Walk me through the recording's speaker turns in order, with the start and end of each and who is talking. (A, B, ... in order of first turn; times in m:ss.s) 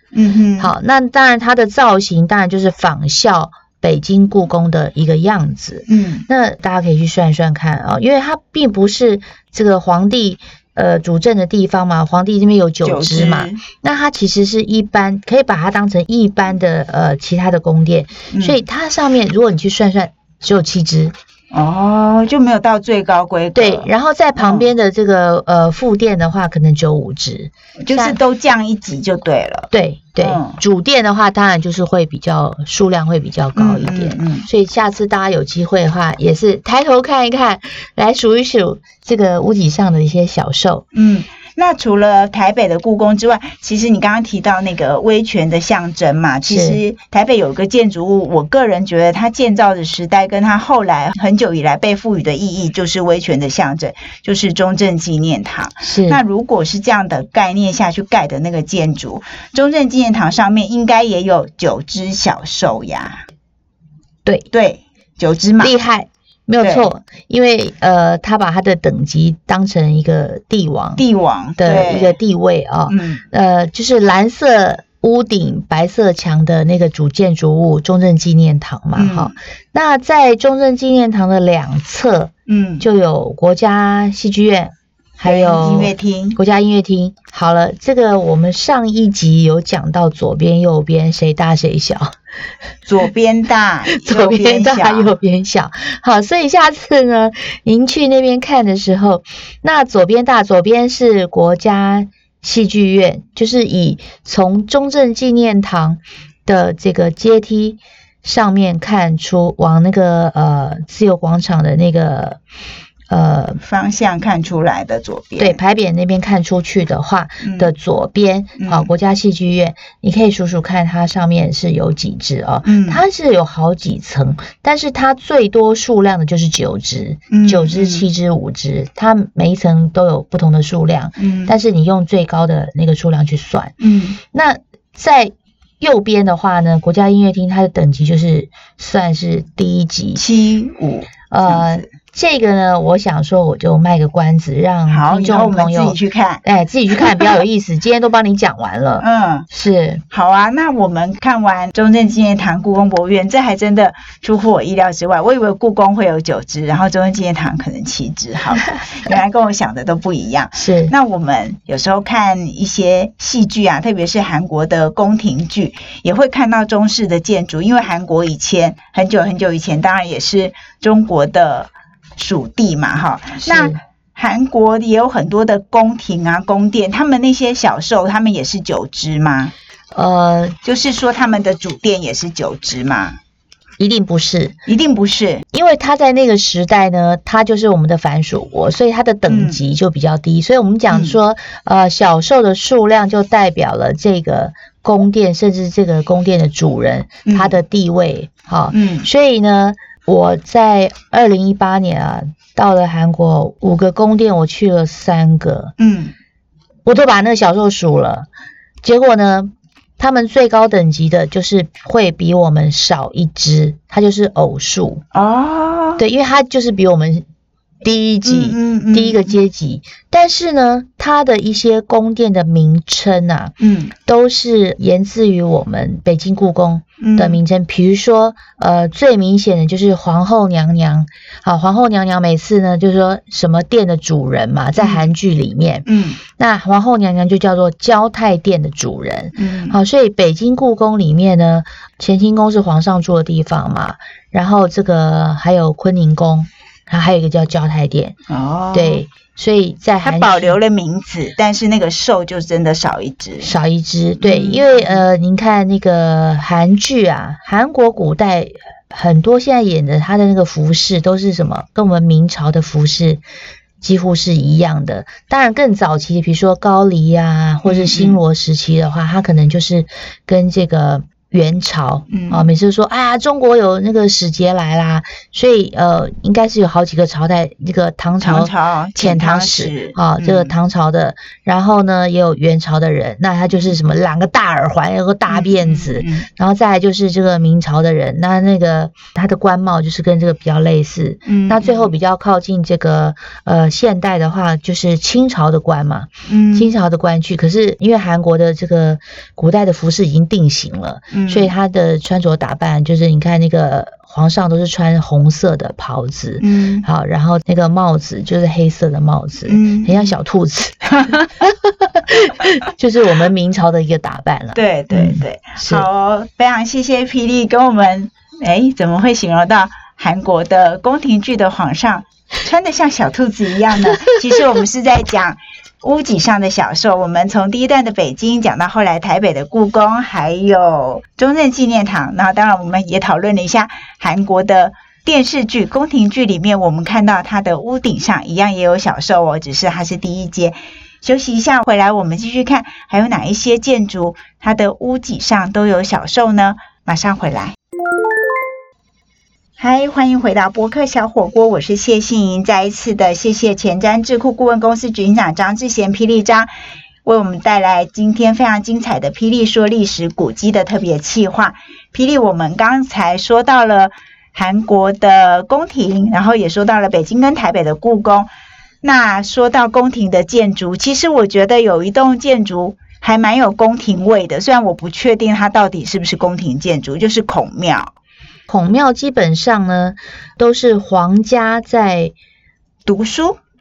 0:00.1-0:00.7 A
0:00.6-0:21.1 B
0:05.9-0:06.2 A
0:12.8-0:13.6 A
0:18.3-0:18.6 A
0:21.5-0:24.7 A
0:23.5-0:28.2 B
0:27.8-0:30.6 A
0:29.7-0:40.8 B
0:33.5-0:34.5 A
0:40.9-1:03.2 A
0:46.4-0:46.8 B
0:55.8-0:56.2 B
1:04.5-1:05.7 A
1:05.6-1:11.0 B
1:06.6-1:06.9 A
1:11.0-1:12.2 A
1:11.6-1:32.1 B
1:12.9-1:13.2 A
1:19.0-1:19.3 A
1:22.5-1:22.8 A
1:25.2-1:26.4 A
1:32.8-1:35.1 A
1:33.9-1:52.4 B
1:53.1-1:53.6 B
1:53.6-1:55.6 A
1:55.4-2:20.2 B
1:57.4-1:57.7 A
1:58.6-1:58.9 A
2:02.6-2:03.0 A
2:07.3-2:08.0 A
2:11.2-2:11.5 A
2:13.8-2:14.2 A
2:20.2-2:21.9 A
2:21.3-2:30.0 B
2:24.9-2:27.4 A
2:29.0-2:29.5 A
2:30.1-2:59.5 A
2:40.5-2:40.9 B
2:53.4-2:53.8 B
2:59.9-3:00.6 B
3:00.6-3:03.2 A
3:03.8-3:04.6 B
3:04.7-3:05.4 A
3:05.5-3:25.7 B
3:09.3-3:09.6 A
3:10.9-3:11.2 A
3:17.2-3:17.6 A
3:18.7-3:19.1 A
3:25.8-3:26.1 A
3:26.8-3:28.3 B
3:28.8-3:35.0 B
3:35.1-3:36.0 A
3:36.0-3:37.2 B
3:37.8-3:43.5 B
3:38.2-3:39.4 A
3:43.6-3:43.9 A
3:44.0-4:08.2 B
3:47.0-3:47.4 A
3:54.8-3:55.1 A
3:55.8-3:56.2 A
3:59.4-3:59.8 A
4:08.3-4:09.0 A
4:08.7-4:10.6 B
4:10.0-4:13.5 A
4:13.4-4:23.2 B
4:14.2-4:15.0 A
4:23.8-5:15.8 B
4:27.6-4:28.2 A
4:32.1-4:32.5 A
4:38.2-4:40.5 A
4:45.3-4:46.3 A
4:51.2-4:51.9 A
4:56.3-4:56.7 A
5:01.1-5:01.5 A
5:06.4-5:06.8 A
5:09.5-5:10.2 A
5:10.9-5:11.3 A
5:14.5-5:47.6 A
5:49.6-5:56.5 A
5:57.0-6:08.3 A
6:08.8-6:17.9 A
6:18.5-6:22.1 B
6:22.8-6:23.4 A